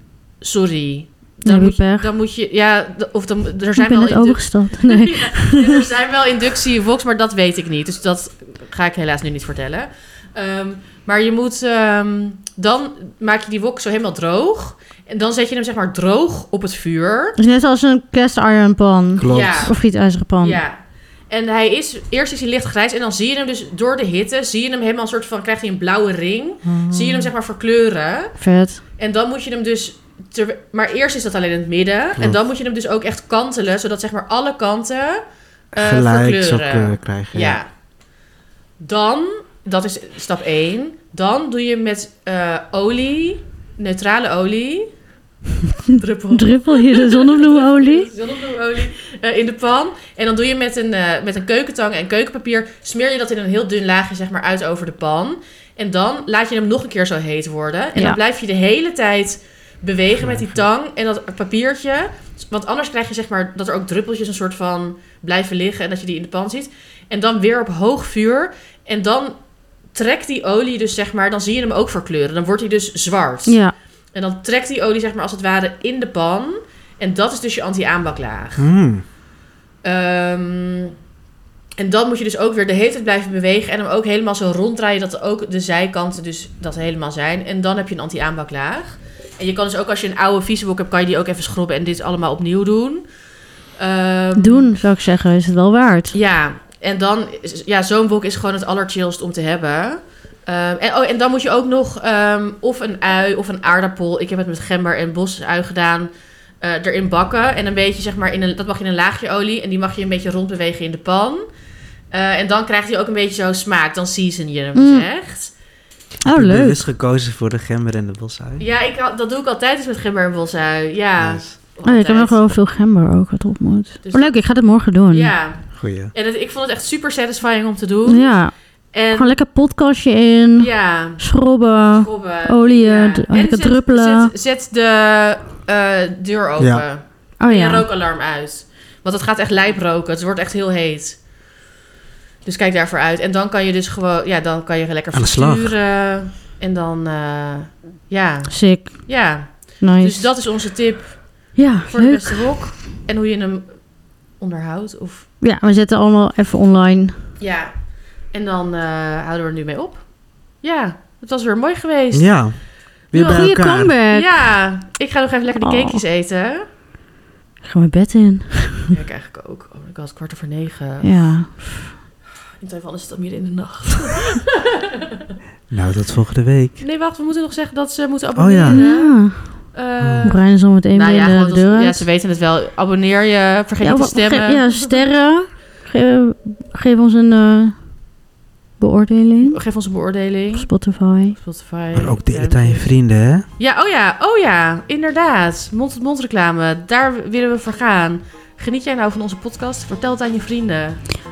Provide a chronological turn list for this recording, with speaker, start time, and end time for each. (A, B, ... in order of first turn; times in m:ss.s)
0:00.4-0:17.4 A
0:01.4-0:02.1 B
0:03.8-0:05.8 B
0:17.4-0:20.6 B
0:19.2-0:19.7 C
0:19.3-0:19.8 A
0:20.4-0:28.4 A
0:26.6-0:27.3 C
0:28.4-0:28.8 B
0:29.0-0:35.2 A
0:35.7-0:37.6 C
0:35.7-0:37.7 A
0:38.8-0:44.9 A
0:45.9-1:09.4 A
0:46.3-0:48.1 B
1:00.2-1:00.6 C
1:09.9-1:13.6 A
1:13.4-1:13.7 B
1:14.1-1:18.7 A
1:18.6-1:19.0 C
1:19.8-1:20.9 A
1:21.8-1:33.0 A
1:33.8-1:34.7 A
1:34.4-1:36.2 B
1:36.1-1:51.4 A
1:52.1-1:55.5 A
1:54.7-1:55.0 B
1:56.2-1:56.8 B
1:56.2-1:58.6 C
1:58.6-2:02.5 A
2:01.2-2:01.5 C
2:01.8-2:05.3 B
2:04.0-2:04.4 A
2:05.1-2:08.3 A
2:05.8-2:06.1 C
2:08.1-2:08.5 B
2:08.9-2:09.3 A
2:09.1-2:14.3 B
2:10.6-2:11.3 A
2:11.9-2:21.2 A
2:16.6-2:16.8 C
2:17.4-2:17.8 B
2:22.4-2:31.2 A
2:25.1-2:25.7 C
2:28.5-2:29.1 B
2:29.8-2:30.3 B
2:31.6-2:32.5 B
2:31.8-2:33.6 A
2:34.4-2:35.3 A
2:35.4-2:37.1 B
2:37.4-2:37.7 A
2:38.3-2:40.0 A
2:40.6-2:42.3 A
2:42.1-2:43.9 C
2:43.1-2:43.5 A
2:43.1-2:44.4 B
2:44.1-2:46.7 A
2:45.6-2:46.0 B
2:47.6-2:48.9 B
2:48.9-2:51.4 A
2:51.0-2:51.9 B
2:52.6-2:55.2 A
2:55.7-2:56.8 C
2:56.8-3:05.0 A
2:58.4-2:58.8 C
2:58.7-2:59.7 B
3:00.0-3:00.3 C
3:00.2-3:02.0 B
3:03.8-3:07.8 B
3:08.8-3:09.6 B
3:09.4-3:10.7 A
3:10.6-3:11.4 B
3:11.3-3:12.9 A
3:11.9-3:13.5 C
3:13.6-3:21.0 A